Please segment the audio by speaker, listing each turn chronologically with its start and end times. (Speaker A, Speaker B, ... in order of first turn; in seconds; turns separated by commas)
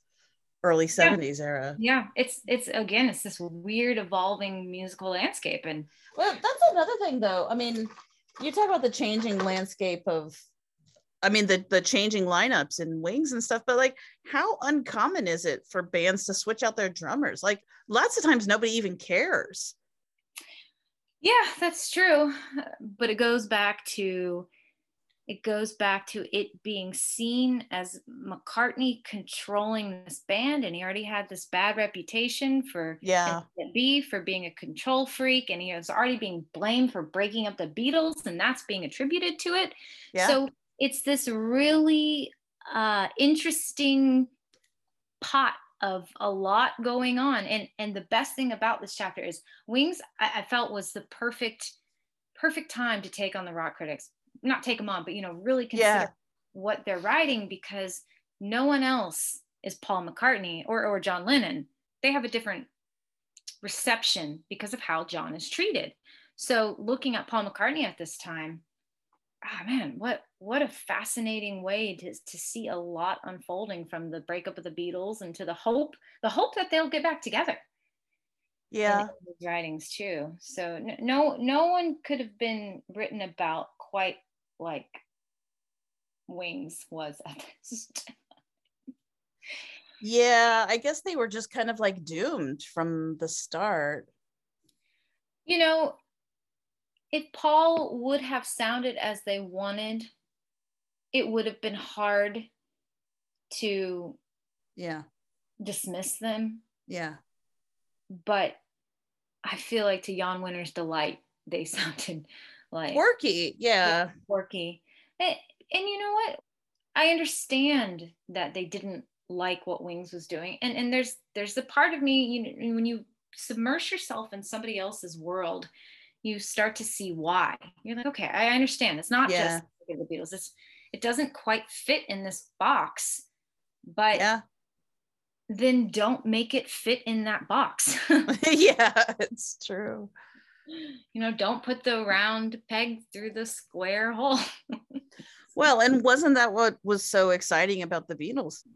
Speaker A: 0.6-1.8, Speaker B: 1.8-5.9, Speaker A: 6.1-10.4, Speaker A: 11.2-19.7, Speaker B: 21.2-24.5, Speaker B: 25.3-44.3, Speaker A: 33.0-33.4, Speaker A: 40.1-40.4, Speaker B: 45.2-51.7, Speaker B: 52.4-62.7, Speaker A: 55.7-56.1, Speaker B: 63.6-68.6, Speaker B: 69.4-77.6, Speaker A: 78.7-79.1, Speaker B: 78.9-85.0, Speaker B: 86.3-88.1, Speaker A: 90.0-94.1, Speaker B: 95.5-96.0, Speaker B: 97.1-100.1, Speaker B: 101.1-102.5, Speaker B: 103.5-104.2, Speaker A: 104.8-105.0, Speaker B: 105.6-106.6, Speaker A: 106.9-107.2, Speaker B: 108.1-108.6, Speaker B: 109.4-113.0, Speaker A: 112.9-114.1, Speaker B: 113.8-116.4, Speaker B: 116.9-125.7, Speaker B: 126.2-133.2, Speaker A: 129.2-129.6, Speaker B: 133.8-134.3, Speaker A: 134.1-134.4, Speaker B: 135.5-138.3, Speaker A: 138.3-140.1, Speaker B: 141.1-144.4, Speaker A: 145.5-148.6